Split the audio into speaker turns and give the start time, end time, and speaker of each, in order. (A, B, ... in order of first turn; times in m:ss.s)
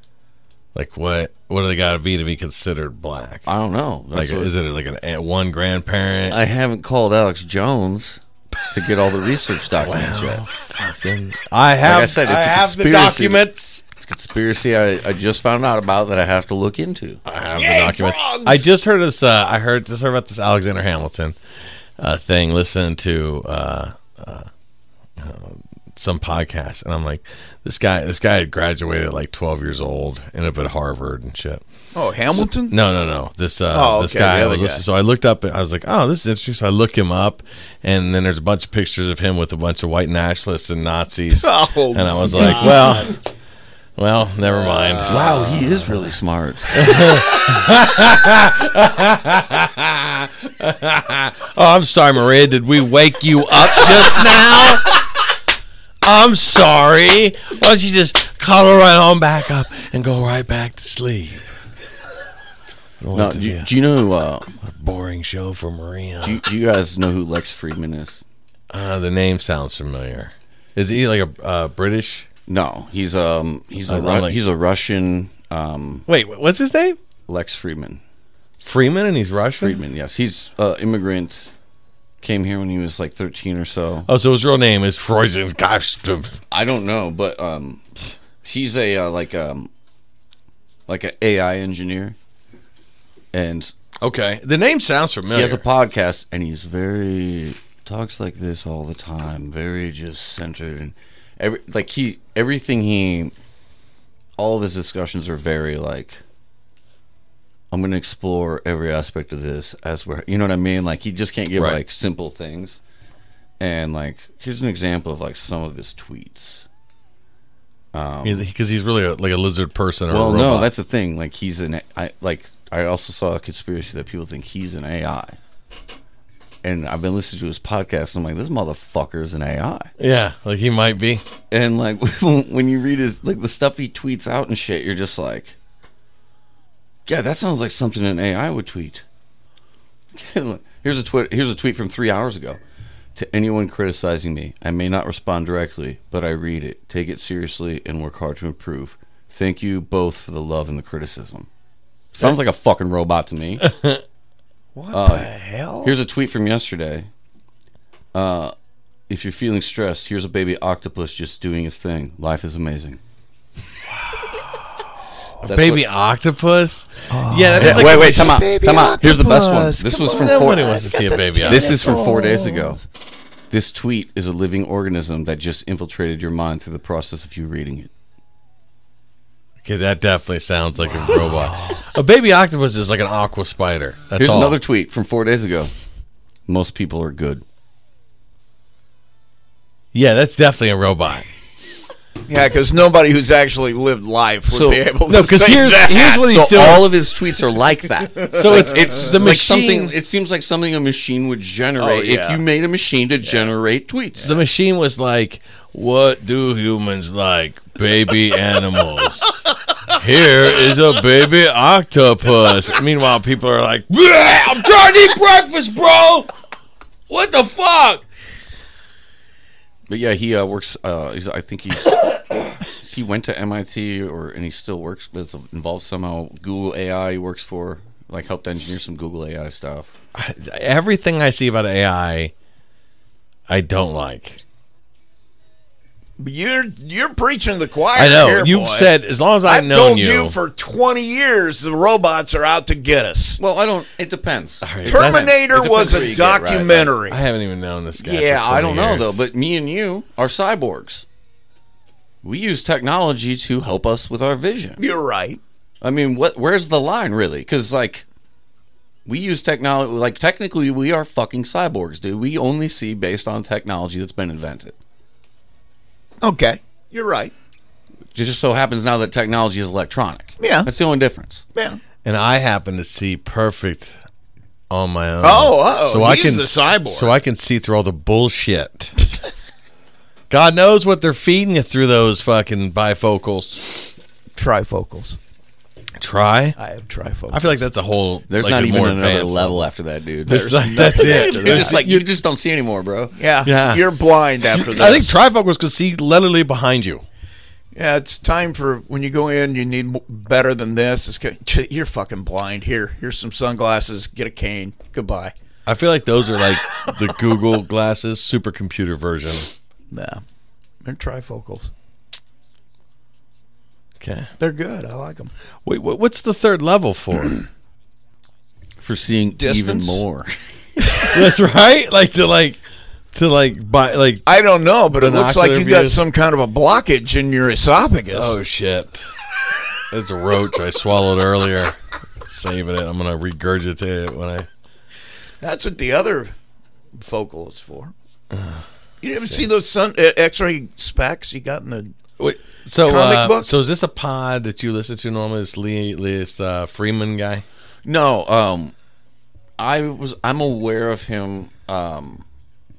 0:00.7-0:03.5 A
0:03.4-0:04.5 B
0:04.1-0:06.4 A
0:06.3-0:10.4 B
0:09.8-0:13.8 A
0:11.8-0:17.2 B
0:17.2-0:21.4 A
0:17.5-0:18.6 C
0:22.0-0:24.5 A
0:25.2-0:31.6 A
0:31.9-0:32.8 C
0:32.3-0:43.2 A
0:33.7-0:34.8 C
0:41.3-0:43.1 C
0:44.0-0:46.0 A
0:44.7-0:45.5 C
0:45.0-0:47.1 B
0:46.7-0:55.0 A
0:56.0-1:01.4 A
1:03.0-1:03.7 A
1:03.1-1:04.5 B
1:04.6-1:06.4 A
1:06.2-1:08.2 B
1:08.7-1:12.3 A
1:12.5-1:16.0 B
1:13.9-1:14.4 A
1:16.1-1:17.0 A
1:17.3-1:18.0 B
1:18.6-1:19.8 A
1:19.6-1:21.5 B
1:22.2-1:24.1 B
1:24.0-1:26.4 A
1:26.5-1:29.7 B
1:30.9-1:32.2 B
1:33.3-1:33.7 B
1:34.0-1:35.6 A
1:35.3-1:43.3 B
1:44.4-1:46.2 B
1:47.7-1:52.8 B
1:51.6-1:51.8 A
1:53.6-1:56.6 B
1:57.9-1:58.4 B
1:58.2-2:00.7 A
2:00.1-2:05.4 B
2:06.6-2:09.9 B
2:10.0-2:11.2 A
2:11.5-2:15.6 B
2:17.0-2:19.0 B
2:20.1-2:22.6 B
2:23.2-2:31.5 B
2:32.2-2:33.7 B
2:33.6-2:34.0 A
2:34.8-2:35.9 C
2:34.9-2:35.3 B
2:35.8-2:37.1 B
2:38.1-2:38.5 B
2:39.1-2:43.0 B
2:45.4-2:48.4 A
2:45.4-2:45.8 B
2:47.1-2:52.8 C
2:47.6-2:50.8 B
2:50.0-2:52.3 A
2:51.4-2:52.8 B
2:53.5-2:57.9 B
2:59.6-3:04.6 A
3:04.2-3:05.7 B
3:06.5-3:07.4 B
3:09.9-3:11.2 A
3:12.3-3:16.3 C
3:14.5-3:14.9 B
3:15.1-3:16.9 A
3:15.8-3:24.4 B
3:18.3-3:19.9 A
3:21.8-3:22.4 C
3:24.2-3:36.3 A
3:37.1-3:38.0 A
3:39.9-3:42.2 B
3:42.7-3:49.9 B
3:50.1-3:52.3 A
3:53.5-3:54.4 A
3:56.2-3:58.9 C
3:57.9-4:00.4 A
3:59.4-4:03.4 C
4:03.4-4:06.9 B
4:04.6-4:05.3 A
4:04.8-4:07.2 C
4:07.1-4:09.2 A
4:08.0-4:11.0 B
4:12.2-4:14.8 B
4:14.8-4:15.4 C
4:15.8-4:18.0 B
4:19.0-4:24.8 B
4:26.2-4:27.3 C
4:28.1-4:31.4 B
4:30.4-4:30.7 C
4:31.5-4:31.8 C
4:32.0-4:34.0 A
4:34.7-4:38.9 A
4:35.2-4:37.1 C
4:40.3-4:43.9 A
4:44.4-4:45.2 C
4:46.0-4:46.6 A
4:46.6-4:47.6 C
4:47.3-4:49.6 A
4:48.3-4:53.2 B
4:50.2-4:52.0 A
4:50.3-4:51.8 C
4:53.1-4:55.2 C
4:53.4-4:53.8 A
4:54.5-4:57.0 A
4:57.7-5:05.3 C
5:05.6-5:09.5 A
5:09.9-5:10.2 C
5:10.8-5:11.7 C
5:14.0-5:14.3 A
5:14.4-5:15.3 C
5:15.6-5:17.4 A
5:18.8-5:20.4 B
5:19.4-5:20.0 C
5:21.0-5:22.6 A
5:23.1-5:24.2 A
5:24.2-5:28.4 C
5:24.9-5:26.0 A
5:28.1-5:29.1 A
5:29.9-5:34.5 A
5:35.4-5:36.3 C
5:37.0-5:37.9 C
5:38.3-5:38.6 A
5:39.0-5:41.9 C
5:42.2-5:47.4 A
5:42.8-5:43.6 C
5:47.8-5:48.7 B
5:49.6-5:52.2 B